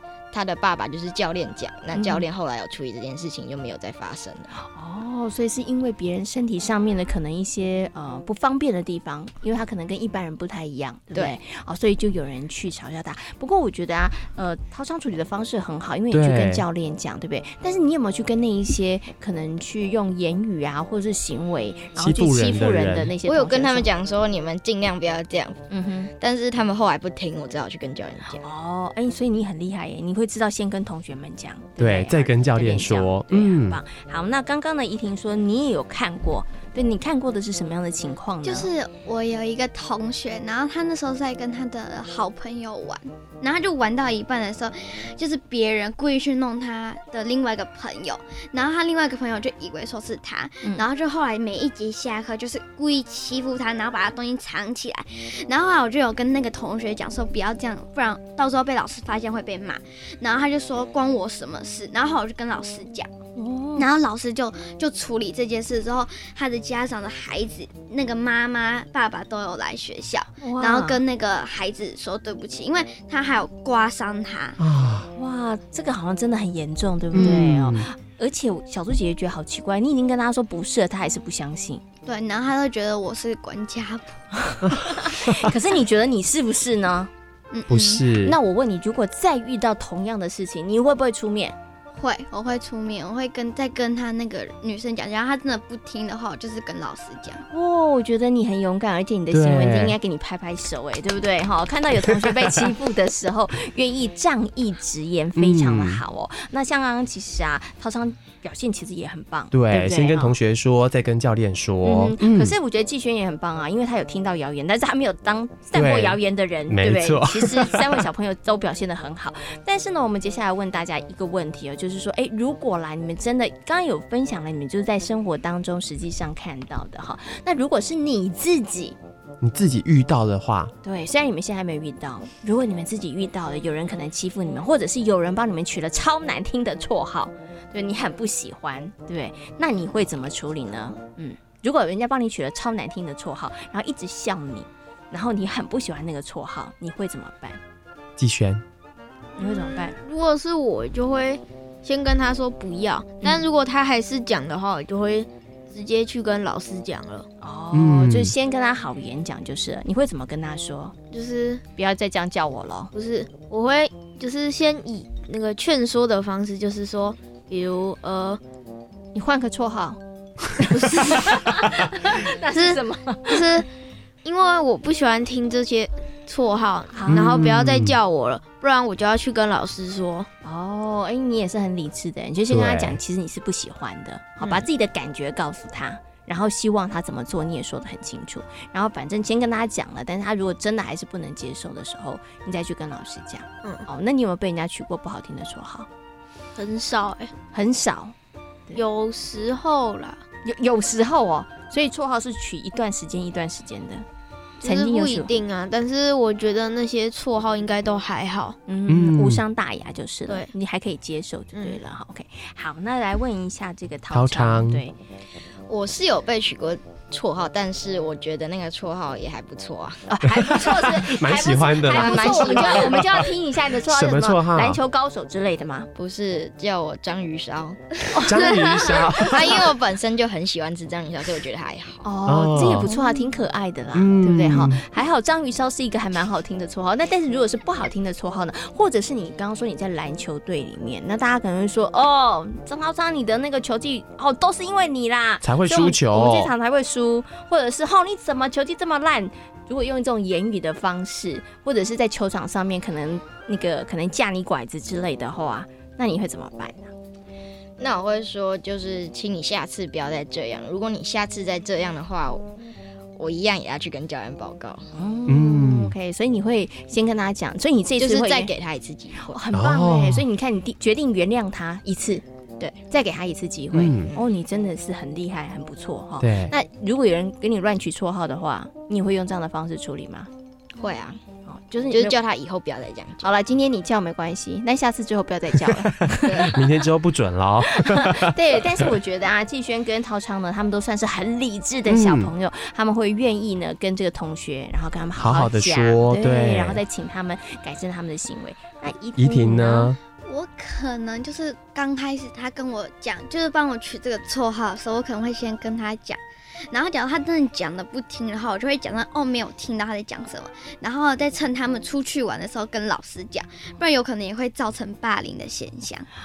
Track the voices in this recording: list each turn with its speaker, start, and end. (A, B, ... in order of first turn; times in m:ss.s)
0:00.3-0:04.5 A
0:01.9-0:02.2 B
0:04.6-0:23.9 B
0:11.1-0:11.4 A
0:16.1-0:16.6 C
0:22.0-0:23.2 C
0:23.2-0:25.6 A
0:25.7-0:26.1 B
0:26.2-0:28.4 A
0:28.4-0:38.7 B
0:31.8-0:33.8 C
0:38.4-1:03.1 D
1:03.4-1:03.9 B
1:03.8-1:14.6 D
1:10.4-1:11.0 B
1:14.6-1:15.1 C
1:15.1-1:21.8 B
1:17.1-1:17.8 C
1:22.0-1:24.3 D
1:24.5-1:27.1 B
1:27.5-1:28.1 D
1:27.7-1:28.4 C
1:28.2-1:31.6 B
1:31.9-1:37.4 D
1:37.5-1:50.3 B
1:39.3-1:40.0 C
1:45.4-1:46.0 C
1:49.5-1:52.5 C
1:51.8-2:09.0 B
1:55.7-1:58.0 C
2:09.4-2:10.7 C
2:10.8-2:27.6 B
2:28.2-2:28.6 C
2:29.4-2:30.0 B
2:29.4-2:37.3 E
2:37.4-2:41.0 B
2:37.7-2:38.3 C
2:41.1-2:41.6 E
2:41.8-2:42.9 B
2:42.9-2:48.4 E
2:49.1-2:50.0 B
2:50.6-2:53.6 B
2:50.7-2:53.7 E
2:54.2-3:00.3 E
2:56.9-2:57.4 B
2:57.1-2:58.0 C
3:00.4-3:15.9 B
3:02.5-3:03.0 C
3:16.6-3:17.3 E
3:17.5-3:18.1 B
3:18.7-3:20.2 E
3:20.4-3:24.0 B
3:24.6-3:25.3 B
3:24.6-3:28.6 E
3:28.6-3:35.0 B
3:28.9-3:29.4 C
3:34.1-3:34.8 C
3:35.7-3:40.0 A
3:40.1-3:45.9 B
3:40.3-3:43.3 C
3:41.9-3:43.1 A
3:43.8-3:44.8 C
3:46.0-3:48.2 A
3:48.1-3:49.7 B
3:48.2-3:49.7 C
3:49.3-3:52.1 A
3:52.0-4:16.9 B
3:52.2-3:53.0 C
3:53.9-3:54.8 C
4:05.4-4:06.5 C
4:17.8-4:22.4 A
4:23.2-4:24.9 A
4:24.9-4:28.5 B
4:25.3-4:25.9 C
4:28.0-4:29.3 A
4:29.2-4:32.2 B
4:29.5-4:30.2 C
4:32.9-4:40.3 B
4:33.7-4:34.1 C
4:36.2-4:36.5 C
4:40.8-4:41.2 A
4:41.5-4:42.2 B
4:41.9-4:43.3 A
4:43.2-4:46.8 B
4:46.2-4:48.3 C
4:46.2-4:46.5 A
4:47.7-4:59.9 B
4:51.9-4:52.3 C
4:55.2-4:56.8 C
4:59.2-5:00.0 C
5:00.2-5:16.1 D